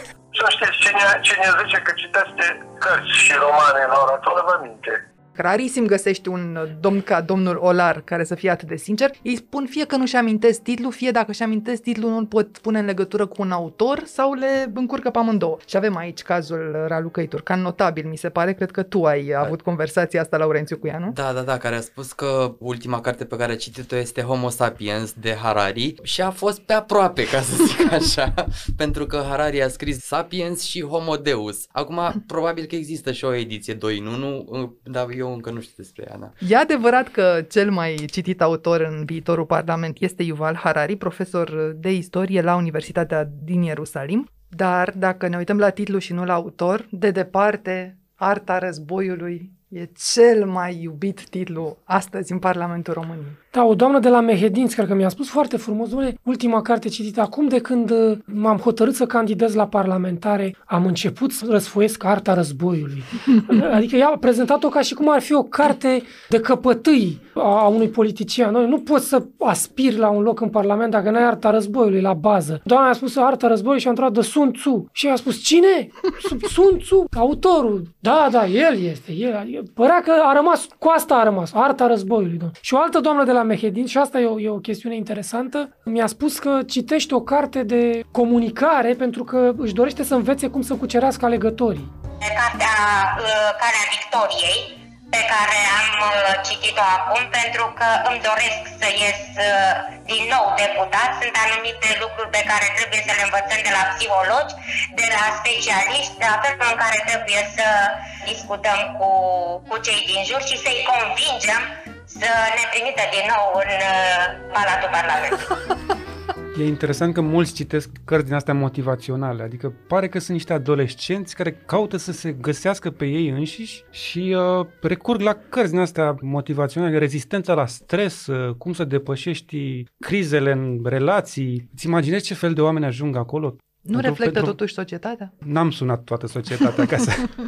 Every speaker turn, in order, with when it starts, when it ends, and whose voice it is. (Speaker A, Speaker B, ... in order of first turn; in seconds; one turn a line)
Speaker A: 0.3-5.0
Speaker B: 5.4-21.2
Speaker C: 21.1-36.4
Speaker B: 36.4-53.4
Speaker D: 53.5-91.9
Speaker E: 92.2-115.5
Speaker F: 116.5-134.6
Speaker B: 133.8-135.3
Speaker F: 135.4-137.3